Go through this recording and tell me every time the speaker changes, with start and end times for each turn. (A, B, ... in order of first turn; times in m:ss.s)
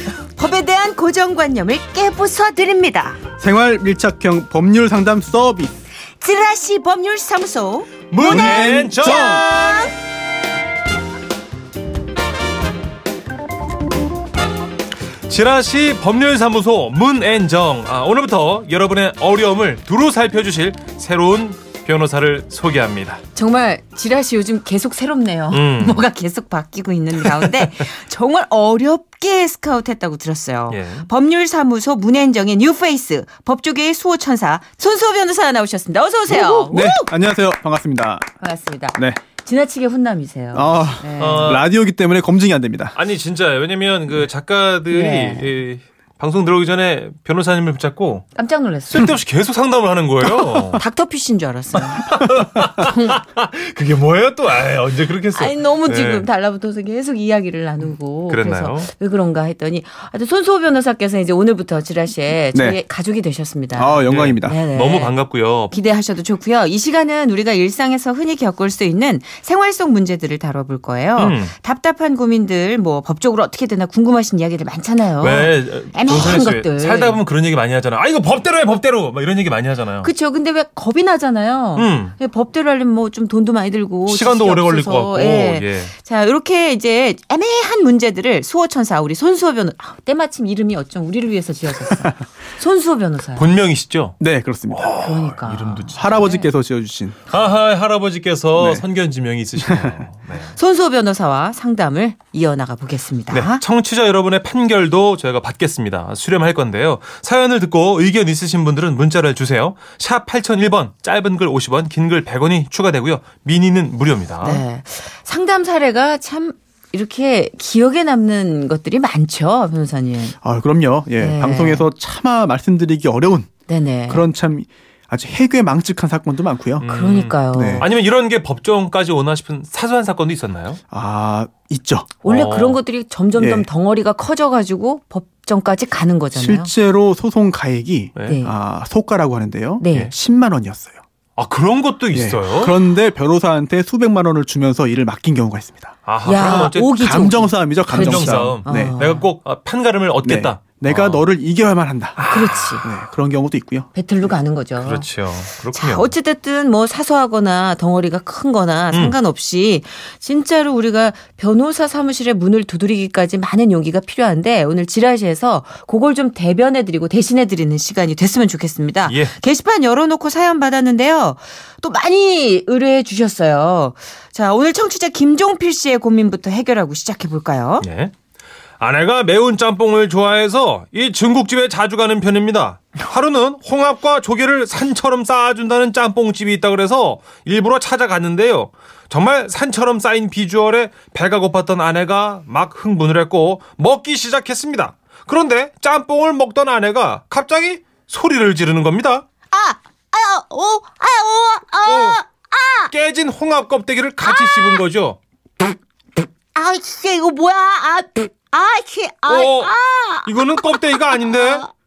0:00.4-0:03.2 A
0:03.4-0:05.8 B
0:06.2-0:09.9 A
0:08.1-0:09.9 C
0:08.2-0:09.5 B
0:15.3-0:23.2 C
0:23.4-0:37.1 A
0:25.5-0:26.1 C
0:30.7-0:31.1 C
0:36.3-0:38.3 B
0:38.4-0:41.6 A
0:40.5-0:43.0 B
0:41.2-0:41.7 C
0:43.0-0:48.2 C
0:44.9-0:45.5 A
0:48.4-0:49.2 A
0:48.9-0:50.8 C
0:50.4-0:52.2 A
0:51.7-0:56.3 C
0:52.8-0:53.2 A
0:55.3-1:05.2 A
0:58.3-0:58.9 C
1:02.5-1:02.8 B
1:03.8-1:04.6 B
1:04.0-1:05.8 C
1:05.7-1:17.2 A
1:11.2-1:11.5 C
1:15.2-1:20.1 C
1:20.0-1:33.5 A
1:21.8-1:22.2 C
1:24.1-1:25.9 C
1:33.4-1:34.2 C
1:34.2-1:35.0 B
1:34.7-1:36.2 C
1:35.0-1:36.5 A
1:36.0-1:37.2 B
1:37.3-1:40.6 C
1:38.6-1:38.8 B
1:39.6-1:40.0 B
1:40.5-1:43.6 A
1:43.3-1:54.6 C
1:54.4-2:00.4 A
2:00.4-2:03.5 B
2:01.2-2:01.9 A
2:03.7-2:04.2 A
2:04.1-2:06.9 B
2:06.8-2:10.8 C
2:06.9-2:07.9 A
2:07.5-2:07.9 B
2:10.9-2:12.2 B
2:12.2-2:16.7 A
2:12.2-2:12.8 C
2:13.4-2:13.7 B
2:16.3-2:21.0 B
2:18.3-2:18.5 A
2:19.8-2:20.1 A
2:21.4-2:22.8 C
2:22.1-2:29.0 B
2:26.1-2:27.0 C
2:26.2-2:29.3 A
2:27.9-2:31.2 C
2:30.2-2:34.3 B
2:32.2-2:32.9 C
2:32.3-2:32.9 A
2:33.9-2:35.1 A
2:34.8-2:36.1 C
2:35.6-2:57.9 A
2:38.9-2:39.2 C
2:49.1-2:49.3 C
2:57.8-2:58.1 C
2:58.8-3:19.2 C
3:19.5-3:22.9 A
3:21.9-3:22.2 C
3:22.9-3:25.2 C
3:24.2-3:24.8 A
3:26.5-3:31.7 A
3:29.3-3:29.7 C
3:30.2-3:31.6 C